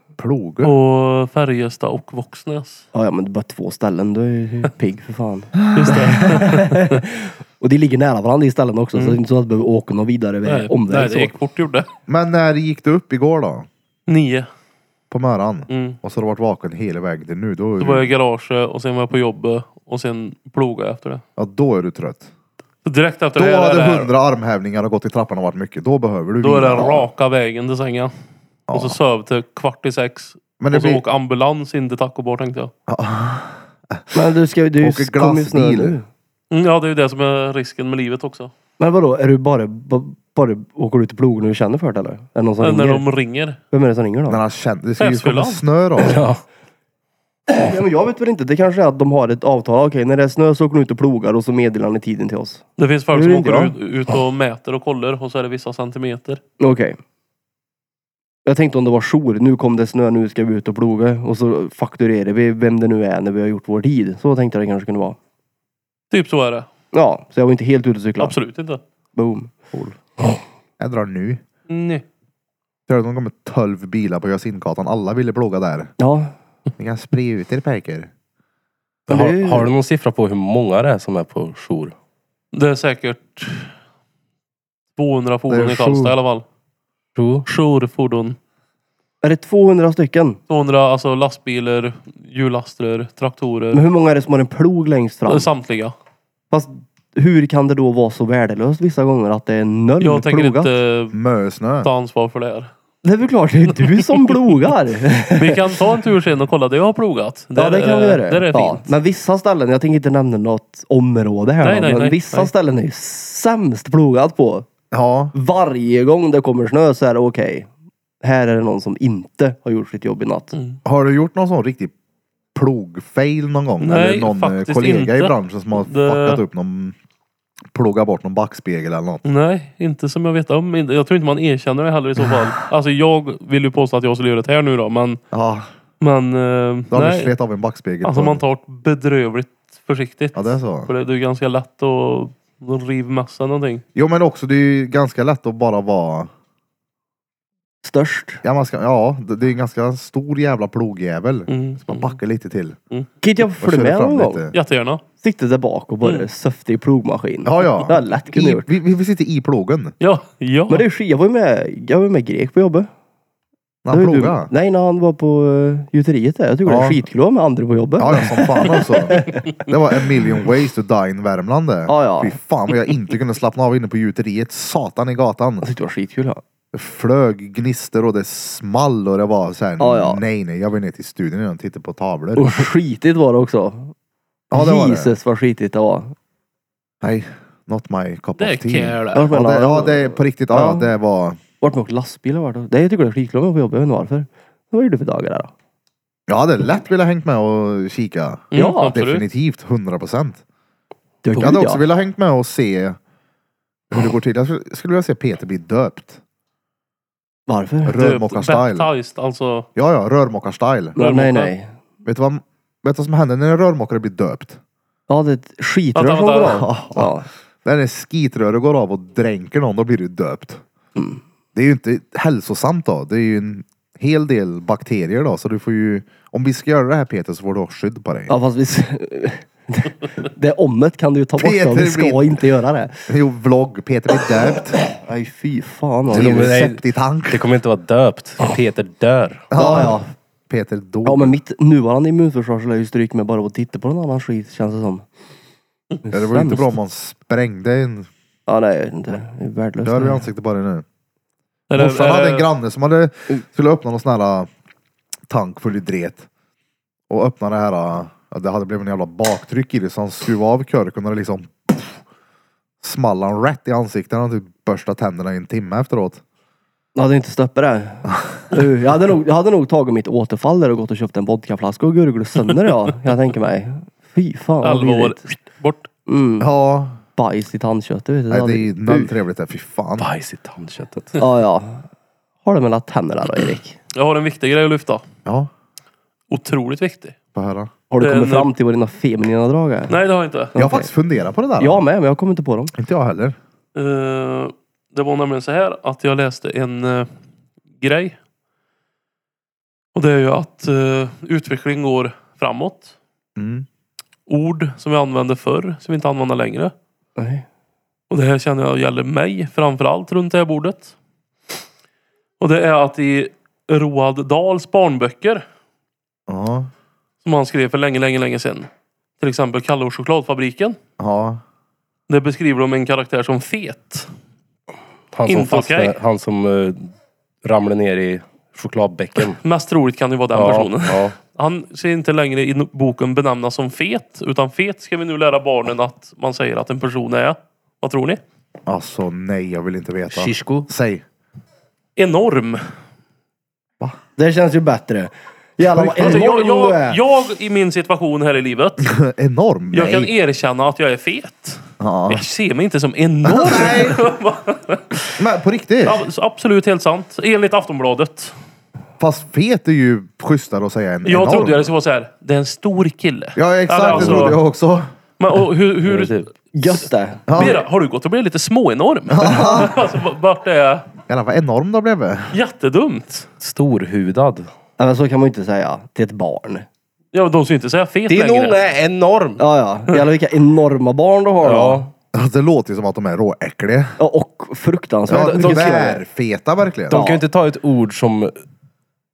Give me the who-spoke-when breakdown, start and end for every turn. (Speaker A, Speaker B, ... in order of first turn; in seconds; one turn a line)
Speaker A: 0.2-0.7
Speaker B: 0.6-2.9
Speaker C: 2.9-11.4
Speaker A: 5.6-6.4
Speaker B: 5.7-7.0
Speaker B: 8.9-9.2
Speaker B: 10.4-11.9
Speaker A: 12.1-13.7
Speaker B: 14.1-14.5
Speaker A: 15.1-18.1
Speaker B: 15.7-16.0
Speaker B: 17.8-21.2
Speaker A: 21.4-22.3
Speaker B: 22.9-24.1
Speaker A: 23.4-27.1
Speaker B: 26.4-28.1
Speaker A: 28.7-29.0
Speaker B: 28.7-32.7
Speaker A: 30.6-31.0
Speaker A: 32.9-34.1
Speaker C: 34.1-36.0
Speaker A: 34.8-36.0
Speaker B: 36.5-38.5
Speaker C: 38.8-43.1
Speaker B: 42.6-43.6
Speaker C: 43.7-44.4
Speaker A: 44.3-46.2
Speaker B: 45.0-45.6
Speaker D: 46.0-46.4
Speaker C: 47.5-53.8
Speaker B: 52.8-56.4
Speaker C: 56.6-57.0
Speaker C: 58.5-65.2
Speaker B: 66.1-66.7
Speaker C: 66.9-68.4
Speaker B: 68.2-68.8
Speaker C: 69.2-70.0
Speaker A: 70.8-71.4
Speaker B: 71.7-72.0
Speaker A: 72.9-75.9
Speaker C: 76.0-76.3
Speaker A: 76.8-78.1
Speaker C: 79.1-79.7
Speaker D: 79.1-81.9
Speaker B: 82.5-83.7
Speaker B: 85.0-86.4
Speaker A: 85.5-86.2
Speaker D: 87.2-87.5
Speaker B: 87.5-88.4
Speaker C: 89.2-90.4
Speaker B: 90.5-93.8
Speaker C: 93.7-95.5
Speaker B: 95.3-96.0
Speaker C: 96.5-100.7
Speaker B: 100.0-101.2
Speaker A: 101.1-101.9
Speaker B: 101.8-102.7
Speaker C: 103.0-105.8
Speaker B: 105.3-108.9
Speaker C: 107.5-114.7
Speaker B: 111.6-112.5
Speaker A: 114.9-115.3
Speaker C: 115.3-117.7
Speaker C: 118.2-120.5
Speaker B: 120.5-120.8
Speaker A: 120.8-121.9
Speaker A: 122.5-127.0
Speaker B: 123.8-126.4
Speaker A: 127.7-129.2
Speaker B: 129.2-135.2
Speaker A: 135.3-135.6
Speaker B: 136.0-137.4
Speaker A: 136.9-138.4
Speaker B: 138.0-143.8
Speaker A: 140.3-140.9
Speaker A: 143.9-146.3
Speaker C: 147.8-148.4
Speaker A: 148.4-152.8
Speaker B: 151.5-152.2
Speaker C: 153.2-154.4
Speaker A: 153.6-154.6
Speaker B: 154.5-155.0
Speaker C: 155.2-158.7
Speaker A: 157.4-160.0
Speaker B: 160.0-160.8
Speaker C: 160.7-162.9
Speaker A: 163.8-164.5
Speaker C: 163.9-169.5
Speaker A: 166.7-167.0
Speaker A: 168.0-175.6
Speaker C: 171.9-172.4
Speaker C: 175.6-176.4
Speaker A: 176.7-182.7
Speaker C: 179.8-180.2
Speaker C: 182.3-183.9
Speaker A: 184.5-185.2
Speaker C: 184.5-186.2
Speaker A: 187.0-191.4
Speaker B: 188.4-189.3
Speaker C: 189.1-190.9
Speaker C: 191.6-195.5
Speaker A: 196.3-200.4
Speaker B: 198.5-199.2
Speaker C: 198.6-198.9
Speaker C: 201.2-201.9
Speaker A: 201.4-203.0
Speaker A: 203.9-206.2
Speaker C: 207.5-208.0
Speaker A: 207.9-208.9
Speaker B: 208.0-209.7
Speaker A: 209.8-211.0
Speaker C: 211.0-211.7
Speaker B: 211.0-211.5
Speaker A: 212.1-214.6
Speaker C: 215.1-217.3
Speaker B: 215.9-216.6
Speaker A: 216.5-220.6
Speaker C: 221.0-221.2
Speaker A: 221.6-228.3
Speaker C: 228.3-233.0
Speaker A: 231.4-232.3
Speaker A: 233.1-234.8
Speaker C: 234.8-236.6
Speaker D: 236.1-239.5
Speaker A: 236.1-237.5
Speaker A: 239.5-241.4
Speaker C: 239.5-240.1
Speaker C: 241.1-245.1
Speaker C: 246.1-246.8
Speaker A: 246.1-248.1
Speaker C: 248.5-250.3
Speaker A: 249.8-250.8
Speaker B: 251.7-252.5
Speaker A: 251.8-254.5
Speaker A: 255.3-256.3
Speaker A: 257.1-261.9
Speaker A: 262.8-266.2
Speaker C: 266.9-275.2
Speaker B: 274.6-275.9
Speaker C: 276.1-276.5
Speaker A: 276.4-277.0
Speaker C: 277.2-279.2
Speaker A: 278.3-280.1
Speaker D: 280.0-281.2
Speaker C: 281.2-281.9
Speaker C: 282.4-283.8
Speaker B: 283.9-285.0
Speaker A: 285.2-285.5
Speaker B: 286.3-287.2
Speaker A: 287.4-287.7
Speaker C: 287.9-290.0
Speaker B: 288.0-288.5
Speaker B: 289.9-290.5
Speaker C: 290.6-290.9
Speaker A: 290.6-291.8
Speaker C: 291.6-292.7
Speaker A: 292.7-293.4
Speaker B: 293.8-297.1
Speaker B: 297.8-298.2
Speaker B: 299.9-302.9
Speaker A: 303.4-303.7
Speaker B: 304.3-306.7
Speaker C: 307.2-307.4
Speaker B: 308.1-310.9
Speaker B: 312.4-315.4
Speaker A: 316.3-316.7
Speaker B: 317.2-318.7
Speaker B: 319.2-320.8
Speaker A: 321.0-321.4
Speaker B: 322.1-324.1
Speaker D: 325.1-326.9
Speaker B: 325.3-326.0
Speaker D: 327.4-329.4
Speaker B: 329.2-338.2
Speaker D: 330.3-331.2
Speaker A: 338.7-341.0
Speaker D: 340.1-340.7
Speaker B: 342.0-342.6
Speaker C: 344.2-347.0
Speaker A: 345.6-346.3
Speaker B: 346.0-348.9
Speaker A: 348.9-350.1
Speaker B: 349.7-355.1
Speaker A: 351.8-352.2
Speaker A: 353.2-354.0
Speaker A: 355.2-356.0
Speaker B: 355.8-358.4
Speaker A: 359.0-361.7
Speaker B: 361.1-364.4
Speaker A: 363.4-364.9
Speaker B: 365.2-366.7
Speaker D: 365.9-366.2
Speaker C: 366.5-367.5
Speaker A: 367.3-367.6
Speaker B: 367.3-370.9
Speaker A: 369.1-369.7
Speaker A: 371.1-372.3
Speaker B: 372.3-373.3
Speaker D: 373.4-374.5
Speaker C: 374.8-376.7
Speaker B: 377.1-378.6
Speaker D: 378.1-379.4
Speaker C: 379.4-381.9
Speaker D: 381.4-381.9
Speaker A: 382.1-383.9
Speaker C: 384.0-386.1
Speaker A: 385.1-387.1
Speaker D: 385.1-385.8
Speaker C: 386.9-387.2
Speaker D: 386.9-388.3